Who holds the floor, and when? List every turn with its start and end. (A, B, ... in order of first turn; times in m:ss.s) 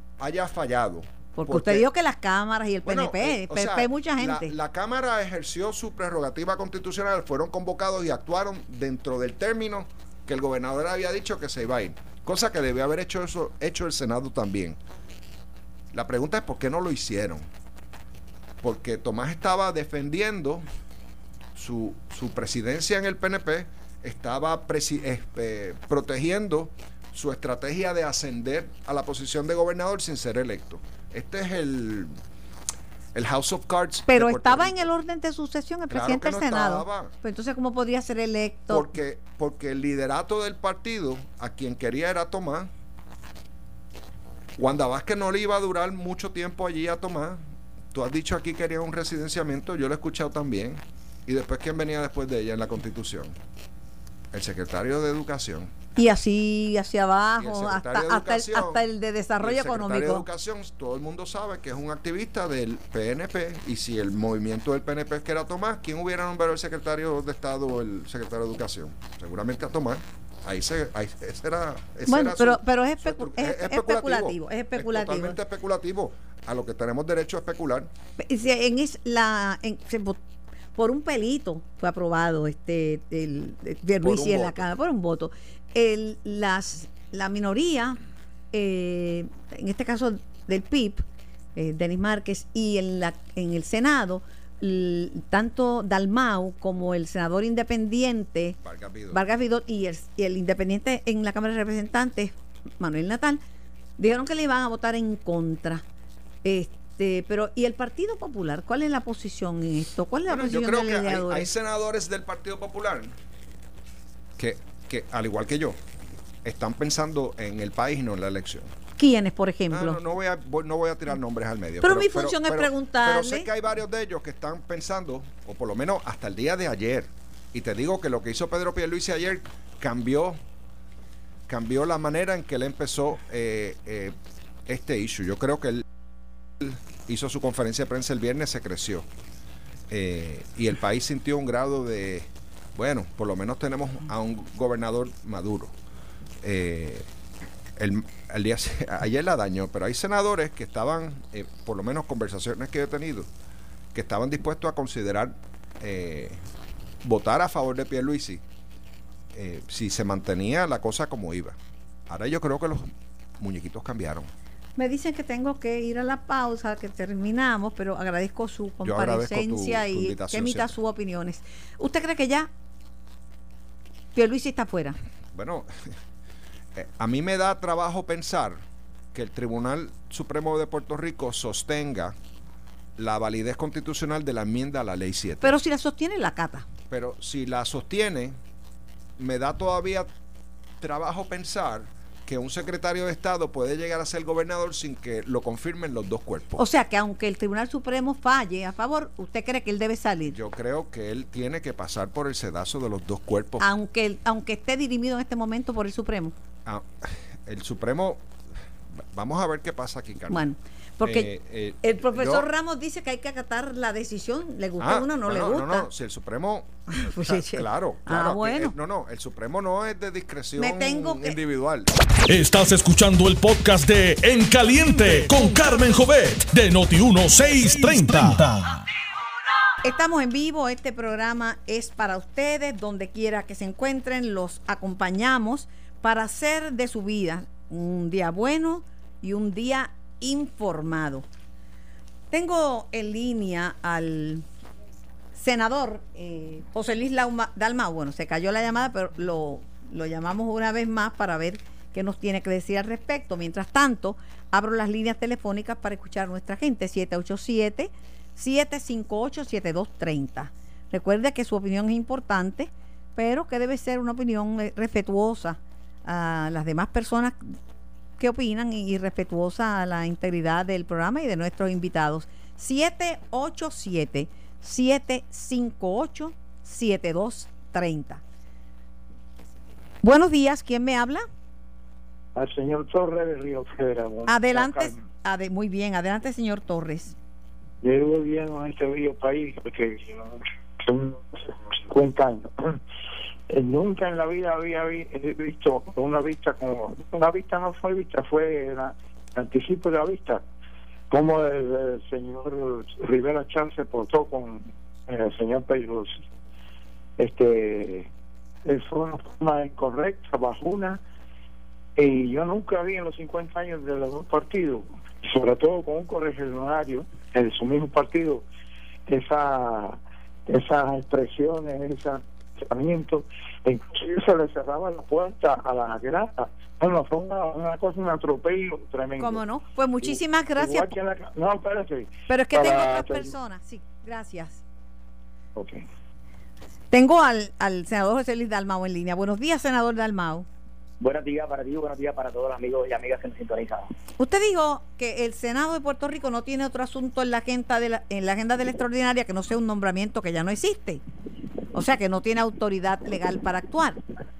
0:00.2-0:01.8 A
0:01.4-0:04.5 B
0:02.8-0:14.8 A
0:15.9-0:17.4 A
0:18.6-0:20.6 A
0:21.6-0:32.1 A
0:33.1-0:34.8 A
0:34.1-0:38.9 B
0:35.9-0:37.1 A
0:38.7-0:42.7 A
0:44.6-0:47.4 A
0:47.9-0:53.3 A
0:54.3-0:55.7 A
0:56.0-1:00.2 B
0:57.4-0:58.8 A
0:59.4-1:17.9 A
1:12.1-1:15.4 B
1:18.2-1:20.2 B
1:20.8-1:28.0 B
1:24.0-1:24.6 A
1:28.5-1:31.0 B
1:31.6-1:38.6 B
1:38.6-1:39.2 A
1:39.1-1:43.4 B
1:44.0-1:45.8 B
1:46.4-1:51.5 B
1:50.3-1:53.1 A
1:54.4-1:55.8 A
1:56.4-1:58.7 A
1:59.0-2:00.0 B
1:59.7-2:10.4 A
2:01.8-2:03.5 B
2:11.5-2:14.2 A
2:14.7-2:15.8 A
2:16.6-2:19.1 A
2:19.9-2:25.7 A
2:26.4-2:27.1 A
2:27.8-2:33.3 A
2:33.9-2:36.4 A
2:37.0-2:38.4 A
2:39.3-2:41.6 A
2:42.1-2:42.9 A
2:43.4-2:44.3 A
2:44.8-2:52.5 B
2:48.8-2:50.7 A
2:54.1-2:55.0 B
2:55.3-2:56.0 A
2:56.8-2:58.6 A
2:59.1-3:02.2 A
3:03.0-3:05.6 A
3:05.4-3:06.7 B
3:06.9-3:08.4 A
3:09.2-3:10.1 A
3:10.8-3:16.6 A
3:16.6-3:20.4 B
3:20.3-3:23.6 A
3:23.6-3:26.4 B
3:26.6-3:28.2 A
3:29.0-3:30.4 A
3:30.3-3:31.3 B
3:31.0-3:32.5 A
3:31.8-3:35.9 B
3:34.8-3:41.9 A
3:36.9-3:38.8 B
3:40.6-3:41.4 B
3:42.3-3:48.8 C
3:49.8-4:01.3 B
4:02.3-4:04.4 B
4:05.4-4:27.6 B
4:28.2-4:38.2 B
4:40.0-4:41.2 B
4:42.4-4:45.0 D
4:44.3-4:47.2 B
4:47.8-4:52.8 D
4:53.5-5:00.4 D
5:01.1-5:06.2 D
5:07.2-5:08.1 D
5:08.6-5:11.0 D
5:12.0-5:18.5 D
5:19.1-5:29.4 D
5:29.2-5:31.0 B
5:30.0-5:33.3 D
5:32.3-5:34.6 B
5:35.6-5:35.8 D
5:36.9-5:40.5 B
5:41.0-5:43.9 E
5:44.2-5:51.0 B
5:51.7-5:54.0 B